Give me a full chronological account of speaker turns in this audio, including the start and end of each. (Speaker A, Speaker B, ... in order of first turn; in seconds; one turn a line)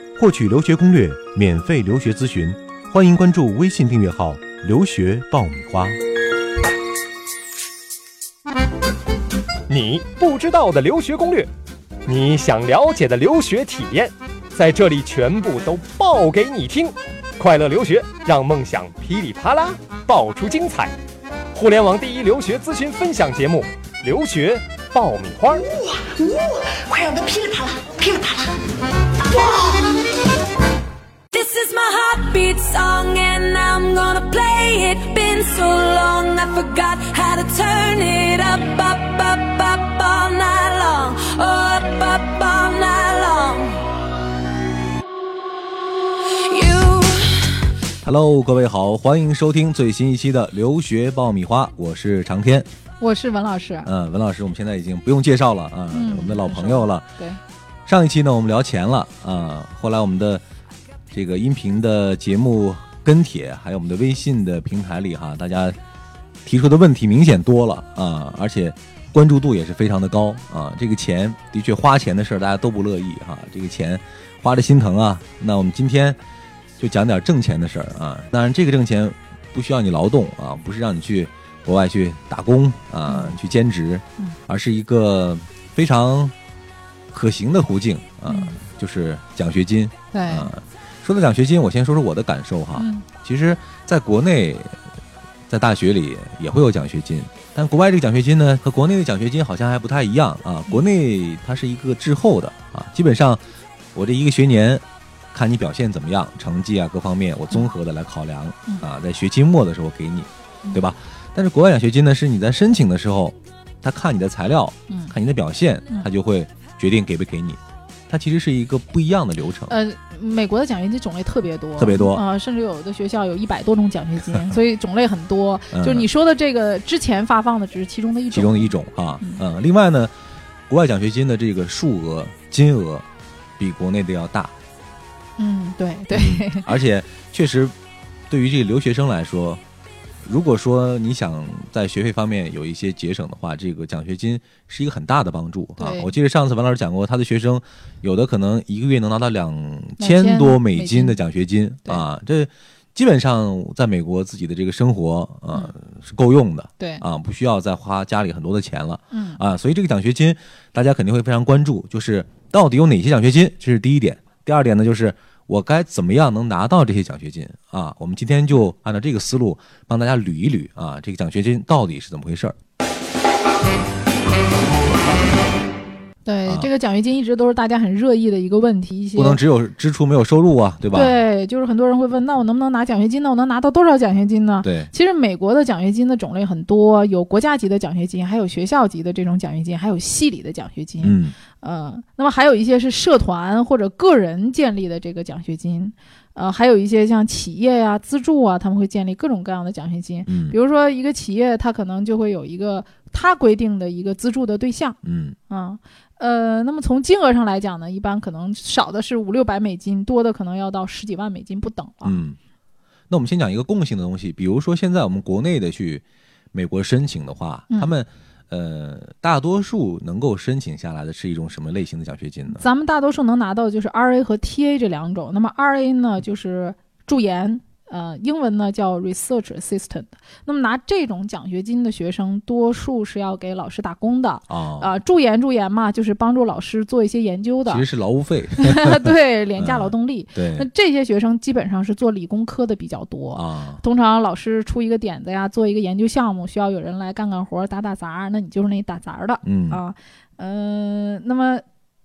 Speaker A: 0.1-6.0
Speaker B: 9.7-11.5
Speaker B: 12.1-20.9
Speaker B: 21.5-25.7
Speaker C: 25.6-28.6
Speaker C: 29.3-29.9
Speaker D: 31.3-43.9
Speaker D: 46.2-47.7
Speaker A: 48.0-52.7
Speaker E: 53.0-53.9
Speaker A: 53.8-57.1
Speaker E: 55.9-57.4
Speaker A: 57.9-60.4
Speaker A: 61.1-65.8
Speaker A: 66.4-76.2
Speaker A: 76.8-86.3
Speaker E: 83.1-83.4
Speaker A: 87.1-94.8
Speaker E: 88.3-88.6
Speaker E: 90.1-90.5
Speaker E: 92.7-93.0
Speaker A: 95.5-103.4
Speaker A: 103.9-119.7
Speaker E: 114.9-115.1
Speaker E: 119.7-129.4
Speaker A: 121.8-122.2
Speaker A: 125.7-126.1
Speaker A: 128.3-130.1
Speaker A: 130.7-133.1
Speaker A: 133.6-134.5
Speaker E: 135.4-136.7
Speaker A: 136.1-137.7
Speaker A: 138.3-139.6
Speaker A: 140.2-172.6
Speaker E: 145.8-146.1
Speaker E: 150.0-151.2
Speaker E: 156.8-157.0
Speaker E: 159.1-159.4
Speaker E: 176.2-179.4
Speaker A: 179.2-181.2
Speaker E: 180.9-205.0
Speaker A: 184.6-184.9
Speaker A: 191.0-191.3
Speaker A: 200.3-200.6
Speaker A: 205.0-205.3
Speaker E: 205.5-212.2
Speaker A: 212.0-212.4
Speaker A: 213.1-222.6
Speaker E: 222.5-237.8
Speaker A: 234.5-234.9
Speaker A: 237.7-240.7
Speaker E: 238.6-251.6
Speaker A: 243.3-243.8
Speaker A: 249.4-249.8